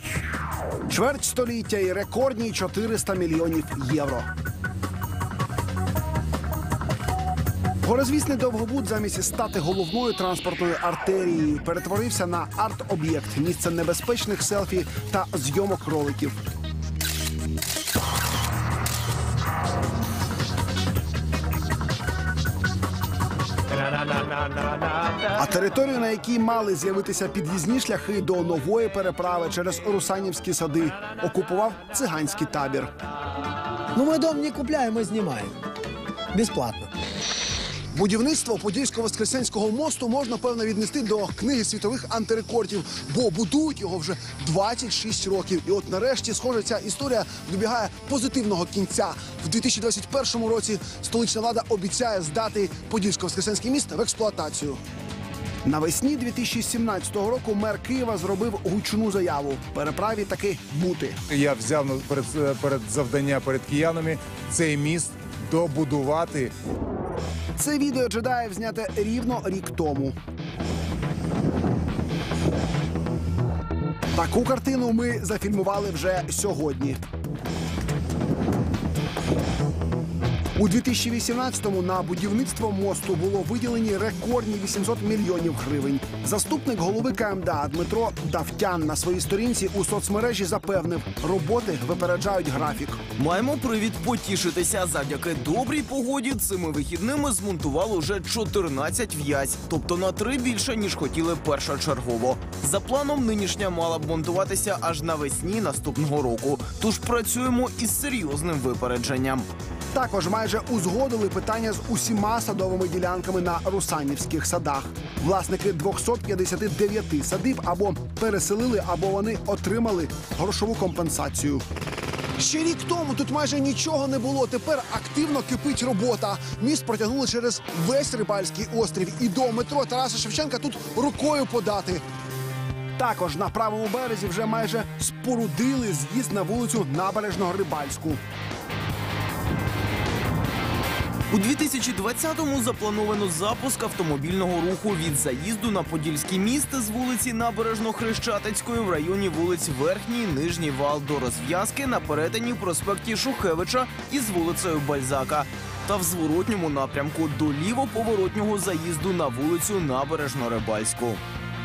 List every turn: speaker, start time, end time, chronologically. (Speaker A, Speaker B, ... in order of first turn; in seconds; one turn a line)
Speaker A: 0.9-4.3
Speaker A: 7.8-16.4
Speaker A: 25.3-32.9
Speaker B: 33.9-35.6
Speaker B: 36.3-36.9
Speaker A: 37.9-54.8
Speaker A: 55.6-61.2
Speaker C: 61.3-66.5
Speaker A: 67.6-70.1
Speaker A: 74.1-77.0
Speaker A: 80.5-93.0
Speaker D: 93.2-109.5
Speaker A: 109.9-121.6
Speaker A: 122.4-132.0
Speaker A: 133.0-138.2
Speaker D: 141.3-161.2